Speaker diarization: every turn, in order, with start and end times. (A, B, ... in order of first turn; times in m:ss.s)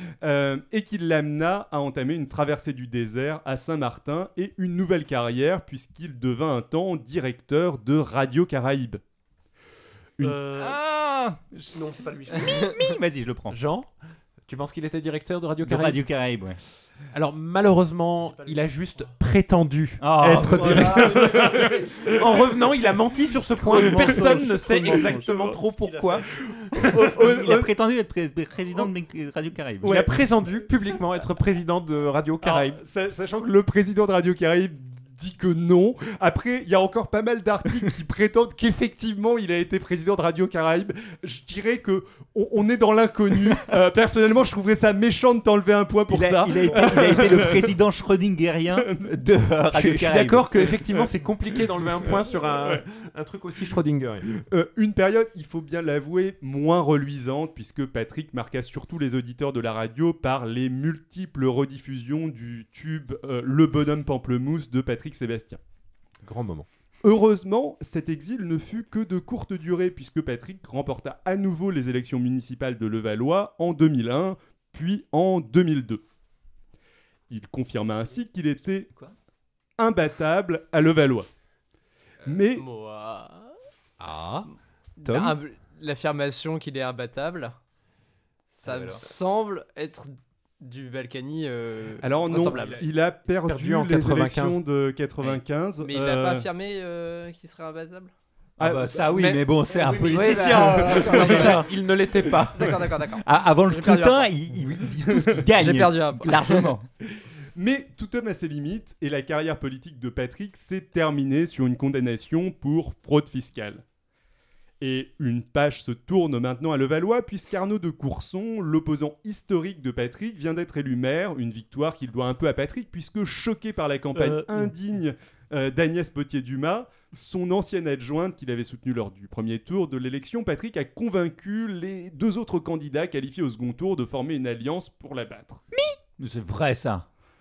0:00.2-0:09.0 A
0:10.2-0:10.8 B
0:10.6-0:11.7 C
0:11.7-0:12.7 B
0:12.3-0:13.6 C
0:13.5-0:13.9 D
0:14.5-0:16.0 D
0:15.6-0:16.6 C
0:17.1-0:26.2 D
0:18.2-0:19.1 B
0:20.0-0:21.4 C
0:20.7-0:22.1 B
0:21.0-0:21.9 A
0:23.6-0:26.4 B
0:23.7-0:25.6 A
0:26.5-0:27.7 A
0:27.0-0:30.0 C
0:29.8-0:30.2 A
0:29.8-0:32.8 D
0:32.4-0:47.8 A
0:46.1-0:50.6 C
0:48.7-0:49.2 A
0:49.7-0:54.3 D
0:52.0-0:52.8 A
0:54.4-1:05.6 A
1:06.2-1:06.7 D
1:07.0-1:16.0 A
1:17.3-1:18.9 A
1:19.8-1:21.3 A
1:22.2-1:22.6 A
1:22.5-1:23.5 E
1:24.0-1:24.5 D
1:25.0-1:27.6 E
1:25.0-1:25.4 D
1:28.5-1:32.8 E
1:28.6-1:29.0 C
1:32.0-1:36.5 A
1:32.3-1:34.6 D
1:35.8-1:38.1 E
1:38.6-1:39.0 A
1:38.6-1:41.6 C
1:39.1-1:41.6 E
1:40.1-1:42.8 D
1:40.3-1:41.6 A
1:41.4-1:41.6 B
1:42.5-1:44.3 E
1:42.6-1:42.8 A
1:43.2-1:46.8 C
1:45.0-1:45.4 A
1:45.5-1:46.7 E
1:47.1-1:53.8 A
1:54.8-2:15.6 A
2:04.1-2:04.7 B
2:15.7-2:17.0 C